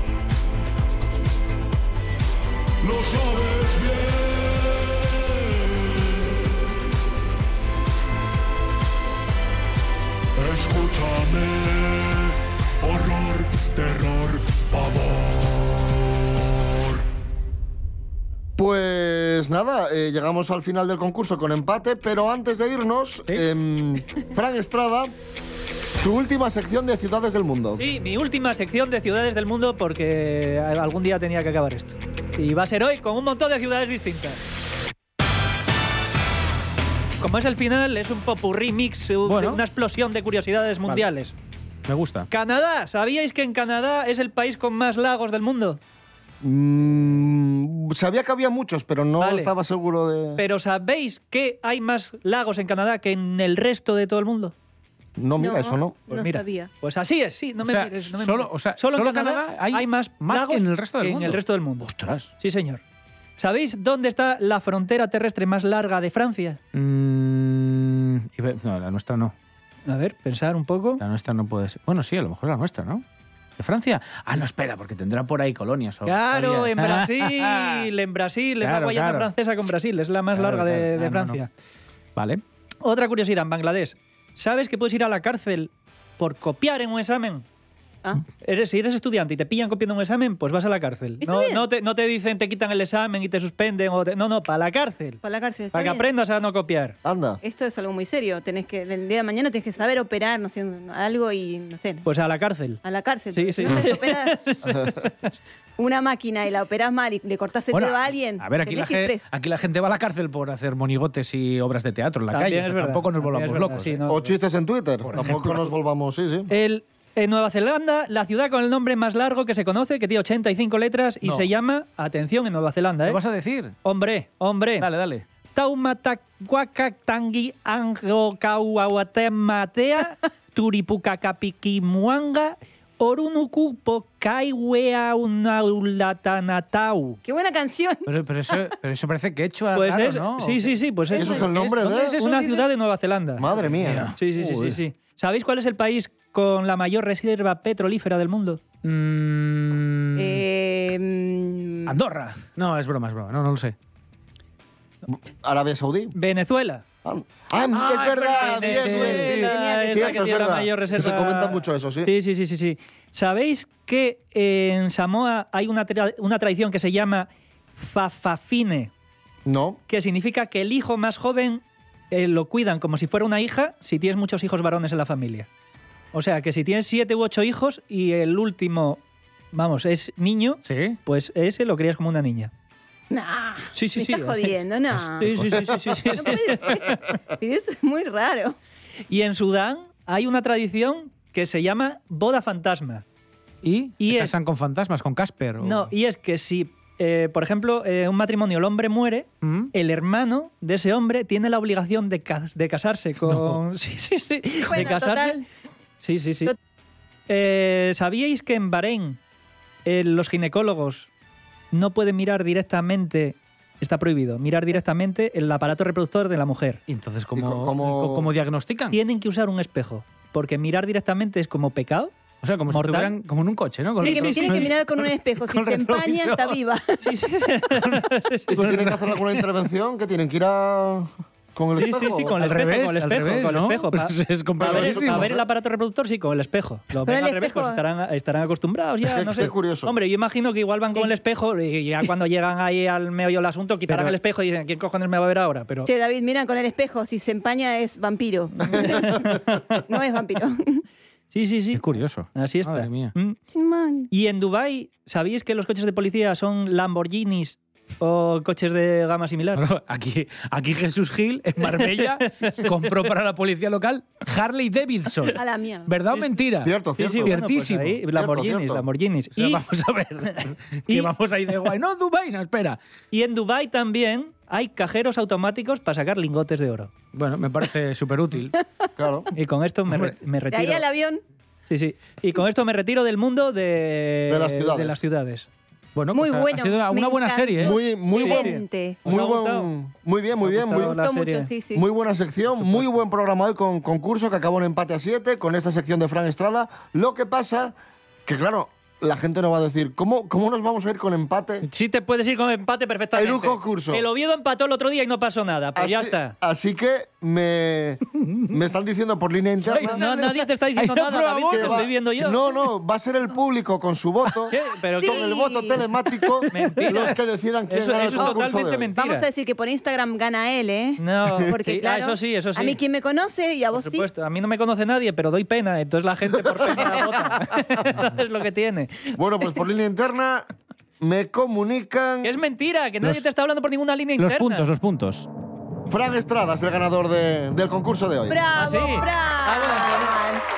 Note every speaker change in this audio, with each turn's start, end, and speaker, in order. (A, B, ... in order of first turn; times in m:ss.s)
0:02.8-0:06.4 A
0:10.4-0:15.6 A
0:16.7-0:17.0 A
0:18.6-0:25.1 B
0:26.0-0:27.8 B
0:27.8-0:34.4 C
0:37.2-0:41.3 C
0:39.2-0:39.6 D
0:41.9-0:42.3 D
0:42.3-0:45.8 C
0:46.4-0:50.4 B
0:49.2-0:49.5 C
0:50.4-0:54.5 C
0:55.2-0:56.0 B
0:55.4-0:56.7 E
0:56.1-1:01.9 C
0:57.6-1:02.3 D
1:02.4-1:02.8 C
1:03.4-1:06.6 C
1:06.7-1:09.3 D
1:09.9-1:11.0 C
1:11.0-1:13.0 D
1:13.6-1:17.9 D
1:16.0-1:21.5 C
1:18.6-1:19.3 D
1:20.3-1:21.4 D
1:22.2-1:22.4 D
1:22.8-1:27.4 C
1:28.4-1:35.2 C
1:31.2-1:31.6 E
1:35.2-1:36.0 E
1:35.7-1:36.9 C
1:37.0-1:37.4 B
1:37.4-1:42.0 E
1:42.0-1:42.8 C
1:42.8-1:44.4 E
1:43.3-1:45.3 C
1:45.8-1:49.3 E
1:47.7-1:54.0 D
1:52.3-1:54.3 C
1:54.1-1:56.5 B
1:55.0-1:55.7 D
1:56.5-2:03.2 C
2:01.2-2:01.5 D
2:03.0-2:03.7 D
2:03.8-2:04.9 C
2:04.8-2:05.2 D
2:05.5-2:17.2 C
2:17.2-2:18.6 E
2:18.0-2:20.7 D
2:19.7-2:21.5 C
2:21.1-2:21.5 E
2:21.1-2:22.2 B
2:21.5-2:22.7 D
2:22.2-2:23.5 C
2:23.4-2:24.1 B
2:23.7-2:24.8 D
2:24.1-2:28.6 C
2:28.8-2:30.4 D
2:30.2-2:32.0 E
2:31.8-2:33.7 D
2:35.1-2:36.1 B
2:36.1-2:36.8 C
2:37.0-2:42.1 B
2:37.7-2:39.3 D
2:37.9-2:48.9 C
2:39.2-2:40.2 E
2:49.4-2:49.8 B
2:49.9-2:55.5 C
2:56.1-2:59.0 C
2:59.5-3:02.5 C
3:00.6-3:01.0 D
3:03.1-3:05.3 E
3:03.7-3:04.5 C
3:04.9-3:06.0 D
3:05.2-3:07.0 C
3:06.1-3:08.6 E
3:09.1-3:13.0 C
3:13.6-3:15.9 D
3:14.0-3:14.3 C
3:15.6-3:25.4 C
3:19.4-3:19.7 D
3:23.2-3:23.6 D
3:24.6-3:25.4 E
3:26.0-3:26.5 C
3:27.3-3:29.2 C
3:29.8-3:31.1 C
3:31.7-3:36.8 C
3:36.9-3:39.0 D
3:37.3-3:38.3 B
3:38.9-3:42.1 C
3:42.4-3:46.6 D
3:42.7-3:43.1 C
3:44.0-3:44.7 C
3:44.0-3:47.1 E
3:47.0-3:48.8 C
3:48.5-3:49.2 D
3:48.5-3:52.4 B
3:51.8-4:05.9 C
3:52.4-3:55.3 D
3:54.6-3:55.4 B
3:57.0-3:57.8 E
3:59.0-3:59.9 B
4:03.9-4:04.1 D
4:05.8-4:10.8 E
4:08.6-4:09.6 C
4:11.3-4:11.8 C
4:11.7-4:13.1 D
4:12.4-4:13.4 C
4:13.5-4:14.1 E
4:14.1-4:19.6 C
4:19.6-4:28.0 D
4:21.6-4:22.9 C
4:25.3-4:25.9 E
4:26.1-4:26.4 C
4:26.6-4:27.4 B
4:27.0-4:29.6 C
4:28.1-4:28.8 B
4:29.4-4:32.8 D
4:30.3-4:31.1 C
4:33.1-4:36.9 C
4:37.1-4:38.6 D
4:39.0-4:39.3 B
4:39.4-4:40.8 C
4:40.5-4:41.2 E
4:41.7-4:45.5 C
4:44.3-4:45.0 B
4:45.9-4:47.8 D
4:46.1-4:49.0 E
4:47.6-4:51.0 B
4:48.2-4:49.7 C
4:50.4-4:51.5 C
4:50.7-4:51.8 E
4:51.7-4:57.7 B
4:58.2-5:01.6 B
5:01.6-5:06.3 C
5:03.1-5:04.0 B
5:05.8-5:10.0 B
5:08.2-5:08.5 D
5:09.7-5:11.9 D
5:09.7-5:12.4 C
5:11.5-5:18.9 B
5:14.5-5:15.3 C
5:15.0-5:15.8 E
5:16.5-5:17.2 C
5:16.5-5:16.8 D
5:17.7-5:19.2 C
5:18.1-5:24.1 E
5:21.0-5:22.8 C
5:23.7-5:29.2 C
5:26.6-5:27.6 B
5:29.2-5:30.5 B
5:31.0-5:32.3 B
5:32.2-5:34.7 C
5:34.2-5:35.3 D
5:35.9-5:38.4 B
5:38.3-5:40.4 E
5:38.5-5:40.1 C